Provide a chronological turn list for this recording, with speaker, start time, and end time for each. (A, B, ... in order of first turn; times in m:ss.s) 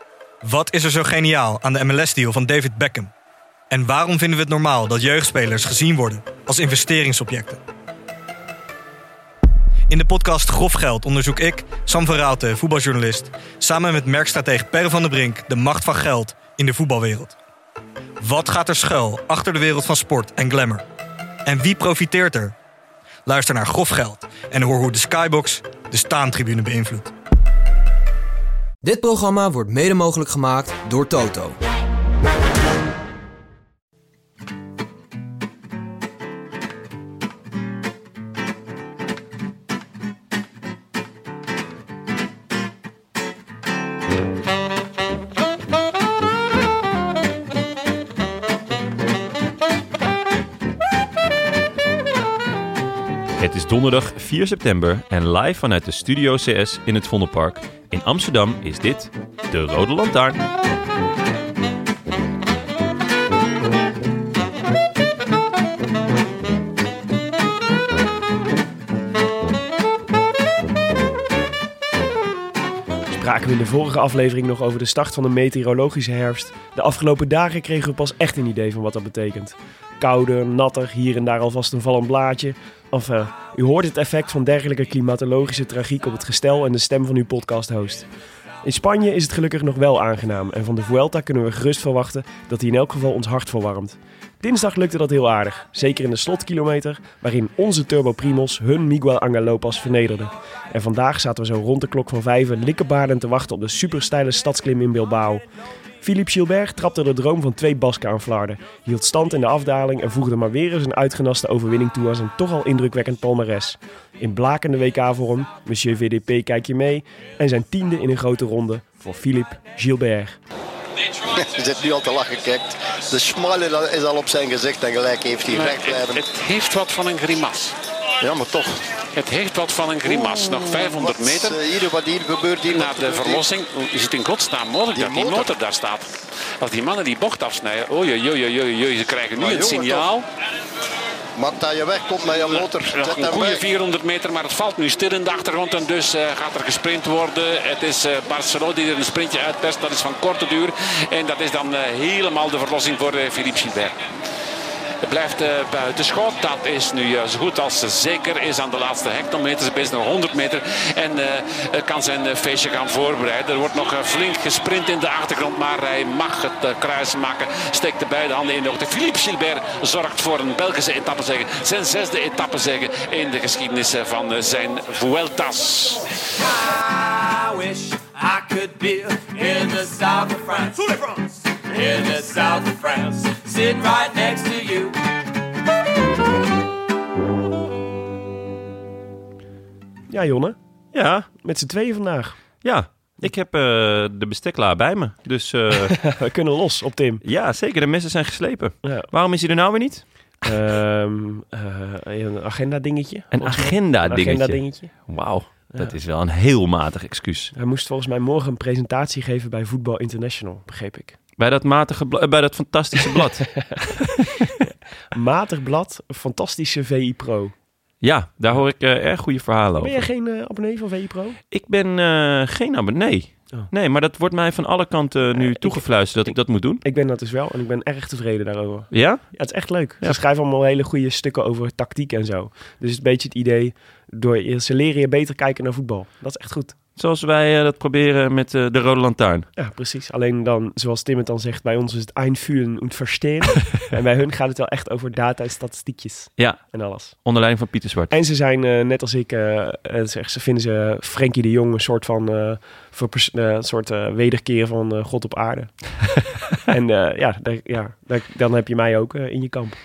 0:00.4-0:03.1 A
0:03.7-0:07.6 A
0:09.9-0:17.3 A
0:18.2-0:20.8 A
0:21.4-0:22.5 A
0:23.2-0:27.1 A
0:28.8-0:31.6 B
0:53.4-1:00.4 C
1:13.1-1:28.1 D
1:28.6-1:45.4 D
1:46.0-2:00.4 D
2:01.2-2:06.2 E
2:05.5-2:07.8 F
2:08.2-2:08.7 E
2:08.4-2:11.6 F
2:10.0-2:13.4 E
2:12.6-2:20.2 F
2:14.9-2:15.5 E
2:19.4-2:20.1 E
2:21.4-2:23.6 E
2:22.3-2:33.9 F
2:35.0-2:56.0 F
2:56.4-3:05.0 G
3:10.1-3:10.6 D
3:10.9-3:11.3 C
3:11.4-3:12.4 D
3:12.6-3:16.0 C
3:15.8-3:17.2 D
3:17.2-3:20.0 C
3:20.4-3:24.9 D
3:23.3-3:27.5 C
3:27.5-3:31.2 D
3:31.4-3:34.4 C
3:33.2-3:33.8 D
3:34.4-3:37.5 D
3:38.0-3:40.0 C
3:39.8-3:41.4 D
3:41.5-3:46.8 C
3:45.3-3:56.7 D
3:48.9-3:49.4 C
3:57.0-3:59.5 C
3:59.6-4:07.1 D
4:06.4-4:08.1 C
4:08.1-4:15.8 D
4:16.7-4:19.8 D